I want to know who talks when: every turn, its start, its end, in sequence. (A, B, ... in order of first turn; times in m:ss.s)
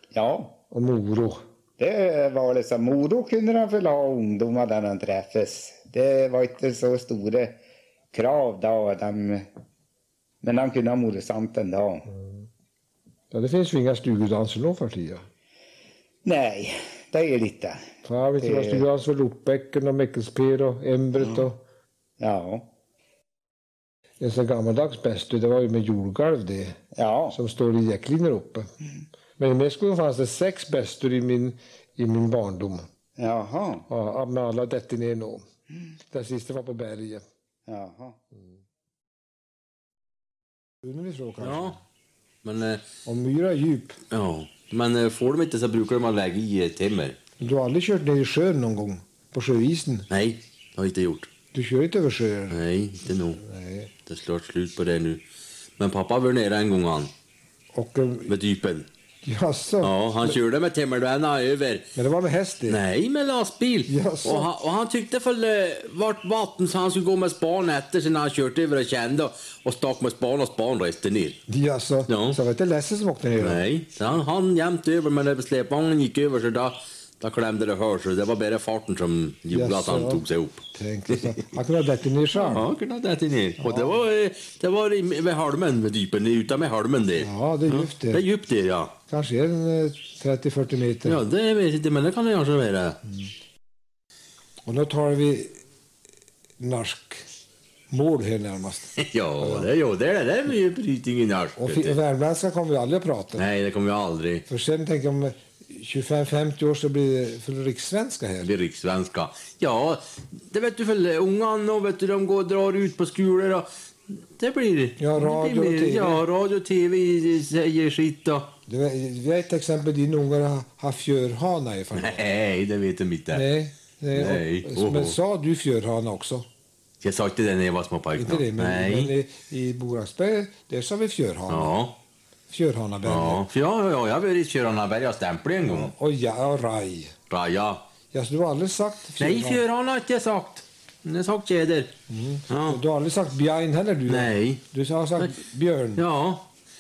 0:00.1-0:00.6 A
0:00.7-0:01.4 B
0:01.8-0:07.6 A
0:08.1-0:09.4 A
0:10.4-0:12.1 A
0:12.1-0:12.4 B
0:13.3-0:15.2 B
0:16.2-0:17.8 A
0:18.0-0:21.6 B
0:18.4-0:18.8 A
0:22.2-0:22.7 A
0:24.2-0:26.8 B
0:26.9-0:27.4 A
0:27.3-0:28.7 B
0:29.4-0:32.9 B
0:33.2-0:33.9 A
0:33.9-0:35.4 B
0:36.1-0:37.2 B
0:37.7-0:38.2 A
0:40.8-0:41.8 B
0:41.4-0:41.8 C
0:42.4-0:42.8 C
0:43.0-0:44.0 B
0:44.1-0:47.2 C
0:47.4-0:50.1 B
0:50.1-0:51.3 C
0:51.5-0:52.6 B
0:52.5-0:53.4 C
0:53.4-0:53.9 B
0:54.1-0:55.2 C
0:55.8-0:57.1 C
0:57.7-0:58.4 B
0:58.3-0:58.9 C
0:59.2-1:00.4 B
0:59.8-1:01.9 C
1:02.0-1:02.8 B
1:02.7-1:11.4 C
1:03.9-1:04.5 B
1:11.5-1:13.6 B
1:12.1-1:12.4 C
1:13.4-1:21.4 C
1:19.5-1:22.7 B
1:22.4-1:28.9 C
1:23.6-1:24.0 B
1:27.2-1:28.2 B
1:29.1-1:31.2 B
1:31.0-1:33.0 C
1:34.7-1:35.6 B
1:36.6-1:37.3 B
1:37.9-1:39.7 B
1:39.0-1:42.0 C
1:41.6-1:43.4 B
1:43.4-1:44.4 C
1:44.5-1:48.5 B
1:48.4-1:58.5 C
1:55.0-1:56.2 B
1:58.7-2:02.2 B
2:01.9-2:03.5 C
2:03.3-2:06.5 B
2:04.2-2:05.2 C
2:07.0-2:09.1 C
2:08.2-2:11.7 B
2:11.5-2:12.0 C
2:12.5-2:13.5 B
2:13.0-2:15.9 C
2:15.6-2:17.2 B
2:17.3-2:17.8 C
2:18.1-2:19.6 B
2:19.2-2:21.9 C
2:22.1-2:26.0 B
2:22.5-2:22.8 C
2:24.1-2:24.6 C
2:26.0-2:26.5 C